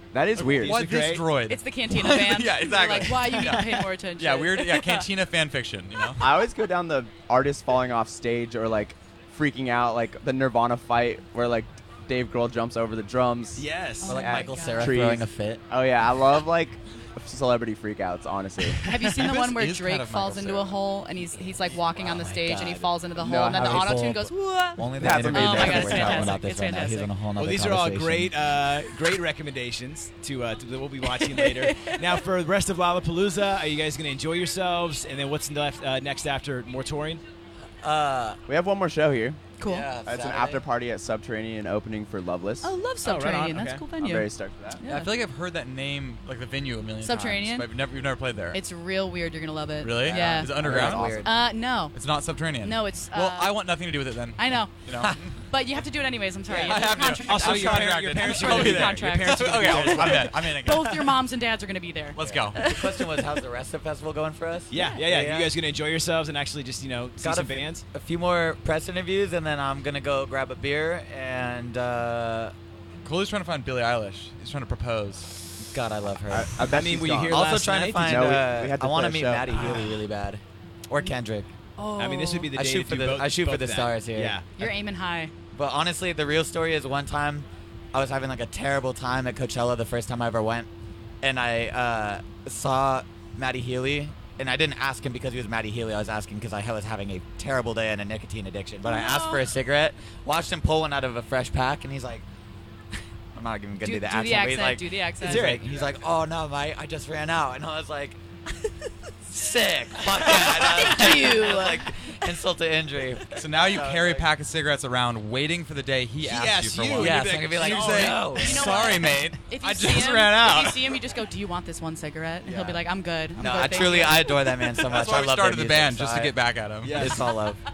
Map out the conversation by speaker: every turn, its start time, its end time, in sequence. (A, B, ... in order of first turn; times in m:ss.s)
0:00.1-0:00.8 A
0:00.3-0:06.2 B
0:00.5-0:01.4 C
0:01.4-0:05.1 D
0:06.2-0:18.8 A
0:13.6-0:14.2 C
0:14.0-0:15.0 D
0:14.1-0:15.6 E
0:18.8-0:27.1 D
0:18.8-0:19.1 C
0:19.0-0:20.8 B
0:21.9-0:22.9 E
0:23.2-0:23.9 A
0:23.5-0:28.3 E
0:25.0-0:26.4 A
0:27.4-0:37.2 C
0:31.0-0:32.2 D
0:37.8-0:38.4 E
0:38.5-0:39.4 A
0:39.6-0:39.9 D
0:39.6-0:40.6 E
0:40.0-0:42.7 A
0:42.6-0:45.1 D
0:43.0-0:43.9 C
0:44.0-0:44.8 A
0:44.8-0:48.6 B
0:47.0-0:47.7 D
0:48.5-0:50.6 D
0:49.8-0:51.2 B
0:50.0-0:51.3 A
0:50.0-0:51.3 E
0:51.2-0:52.0 D
0:51.9-0:55.3 B
0:52.6-0:53.8 D
0:54.4-0:54.7 D
0:55.3-1:03.4 D
0:56.5-1:00.9 B
0:57.0-1:01.1 C
1:02.1-1:02.6 B
1:02.2-1:05.5 E
1:04.7-1:07.8 C
1:04.7-1:05.0 D
1:07.2-1:12.5 E
1:13.0-1:15.5 B
1:15.6-1:16.5 E
1:16.3-1:17.4 A
1:16.6-1:18.3 C
1:17.3-1:21.5 E
1:18.0-1:19.5 A
1:19.5-1:19.9 C
1:21.8-1:22.6 D
1:21.9-1:24.6 C
1:22.5-1:24.7 E
1:24.6-1:25.3 D
1:25.5-1:30.7 E
1:31.2-1:42.2 E
1:38.8-1:39.5 D
1:43.3-1:48.2 E
1:43.8-1:45.5 D
1:45.2-1:45.9 C
1:49.2-1:54.3 E
1:50.6-1:51.9 D
1:53.3-2:01.0 B
1:56.2-1:58.3 C
1:57.0-1:58.8 E
1:58.3-2:04.6 D
2:02.4-2:02.8 C
2:03.4-2:06.4 E
2:04.8-2:07.2 B
2:06.8-2:07.3 C
2:06.9-2:07.6 E